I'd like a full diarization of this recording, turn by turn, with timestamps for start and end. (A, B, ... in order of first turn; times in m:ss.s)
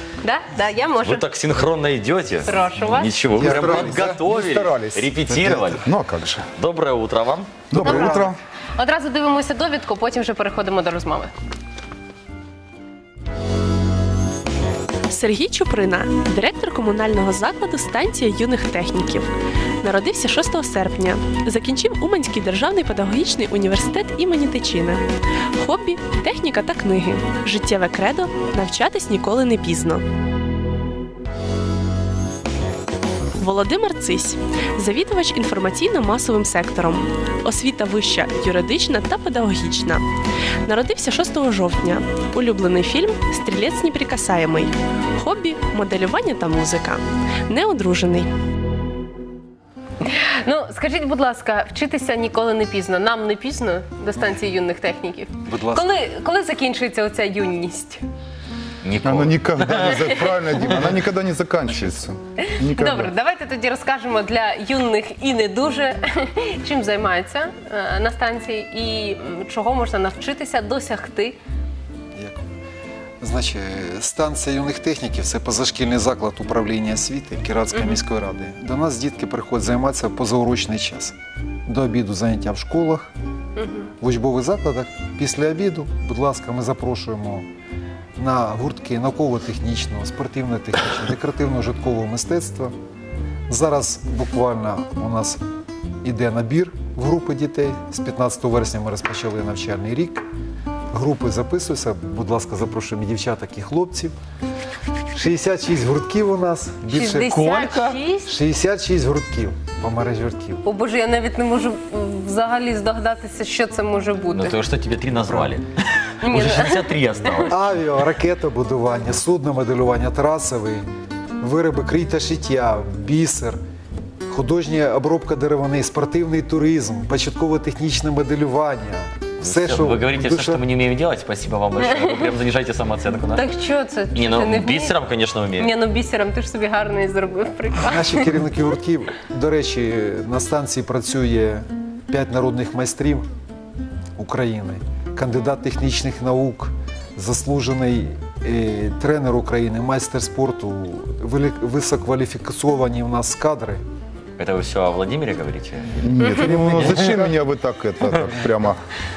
0:00.2-0:01.3 A
0:01.0-0:05.8 B
0:02.4-0:03.2 A
0:03.4-0:06.5 C
0:03.4-0:04.1 D
0:06.5-0:08.0 B
0:07.7-0:08.4 C
0:07.7-0:11.3 A
0:15.1-0:19.3 E
0:19.8-0:25.0 E
0:25.6-0:30.0 E
0:33.4-0:40.0 E
0:40.6-0:48.3 E
0:50.4-0:58.0 A
0:55.4-0:55.9 D
0:58.8-1:00.9 B
0:59.0-1:03.1 C
1:02.6-1:11.4 A
1:12.2-1:12.4 D
1:13.2-1:21.1 D
1:17.7-1:18.0 A
1:21.7-1:23.1 D
1:23.6-1:23.9 A
1:24.0-1:27.5 D
1:28.2-1:32.7 D
1:33.5-1:35.4 D
1:36.0-1:40.2 D
1:40.9-1:44.1 D
1:45.1-1:47.3 D
1:46.9-1:48.3 A
1:47.2-1:48.0 B
1:48.2-1:50.6 D
1:50.6-1:54.6 A
1:54.3-1:57.6 B
1:56.2-1:57.4 A
1:57.5-2:00.8 D
2:01.4-2:03.6 D
2:04.3-2:10.6 D
2:09.4-2:13.4 B
2:13.3-2:15.0 A
2:14.1-2:15.7 B
2:15.6-2:18.2 A
2:17.8-2:23.3 D
2:24.2-2:33.8 D
2:34.4-2:37.3 B
2:36.0-2:38.8 C